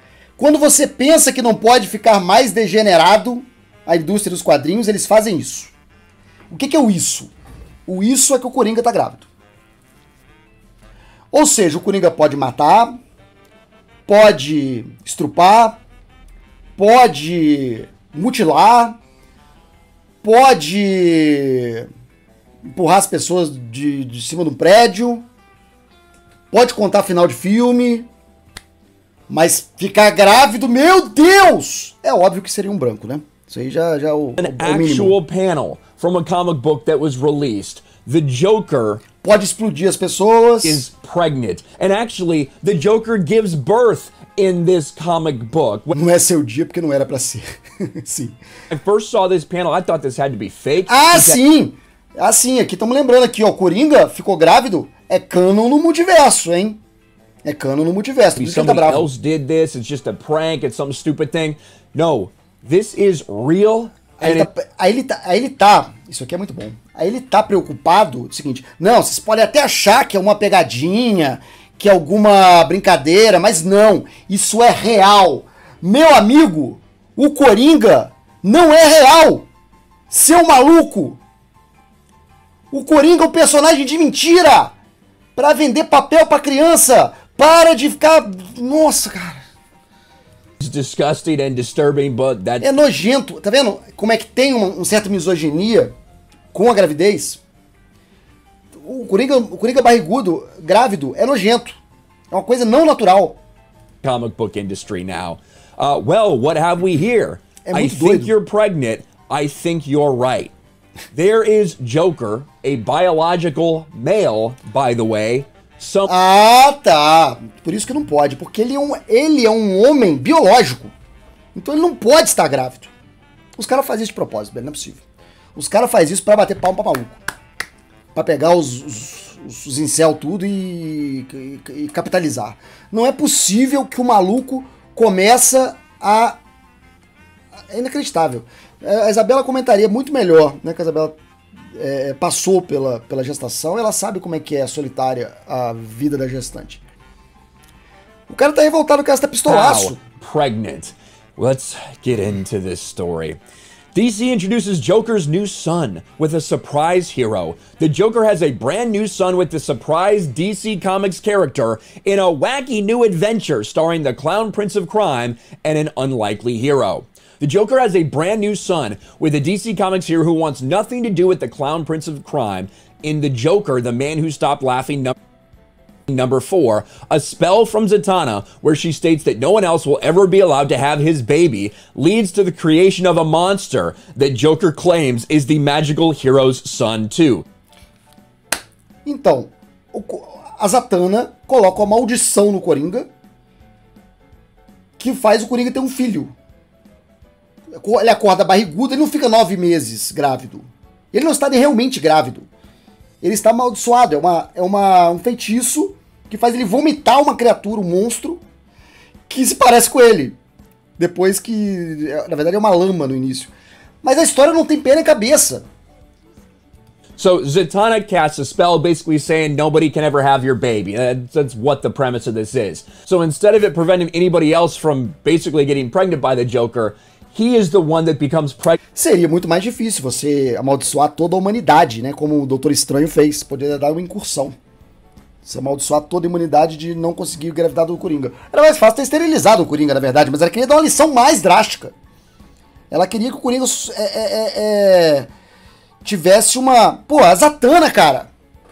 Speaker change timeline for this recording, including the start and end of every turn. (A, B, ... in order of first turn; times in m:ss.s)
0:00.4-0:05.7 A
0:06.5-0:07.3 A
0:07.9-0:09.3 A
0:11.3-0:13.0 A
0:14.1-0:15.8 A
0:16.8-0:19.0 A
0:20.2-0:21.9 A
0:22.7-0:25.2 A
0:26.5-0:28.1 A
0:29.3-0:35.2 A
0:34.4-0:39.0 B
0:39.2-0:40.8 A
0:40.6-0:45.9 B
0:45.9-0:48.4 A
0:48.7-0:51.4 B
0:50.9-0:56.8 A
0:57.4-0:59.1 A
0:58.4-1:04.5 B
1:04.2-1:19.5 A
1:20.1-1:21.2 A
1:22.7-1:24.7 A
1:25.4-1:29.4 A
1:30.6-1:32.7 B
1:32.6-1:35.9 A
1:36.5-1:37.4 A
1:38.8-1:41.8 A
1:42.3-1:43.4 A
1:44.0-1:50.5 B
1:47.6-1:48.3 A
1:51.1-1:56.1 B
1:56.1-2:00.9 A
2:01.5-2:02.9 A
2:03.6-2:05.0 A
2:05.5-2:07.2 A
2:08.1-2:16.4 A
2:17.7-2:21.2 A
2:21.7-2:26.8 A
2:28.3-2:30.0 A
2:29.4-2:33.4 B
2:33.9-2:55.1 B
2:56.1-3:07.4 B
3:09.0-3:13.1 A
3:15.0-3:16.3 A
3:17.7-3:22.5 A
3:23.2-3:28.4 A
3:29.3-3:30.4 A
3:31.0-3:33.5 A
3:34.0-3:35.6 A
3:37.2-3:48.8 B
3:48.9-3:54.5 A
3:55.4-4:01.9 A
4:02.9-4:05.3 A
4:06.0-4:08.3 A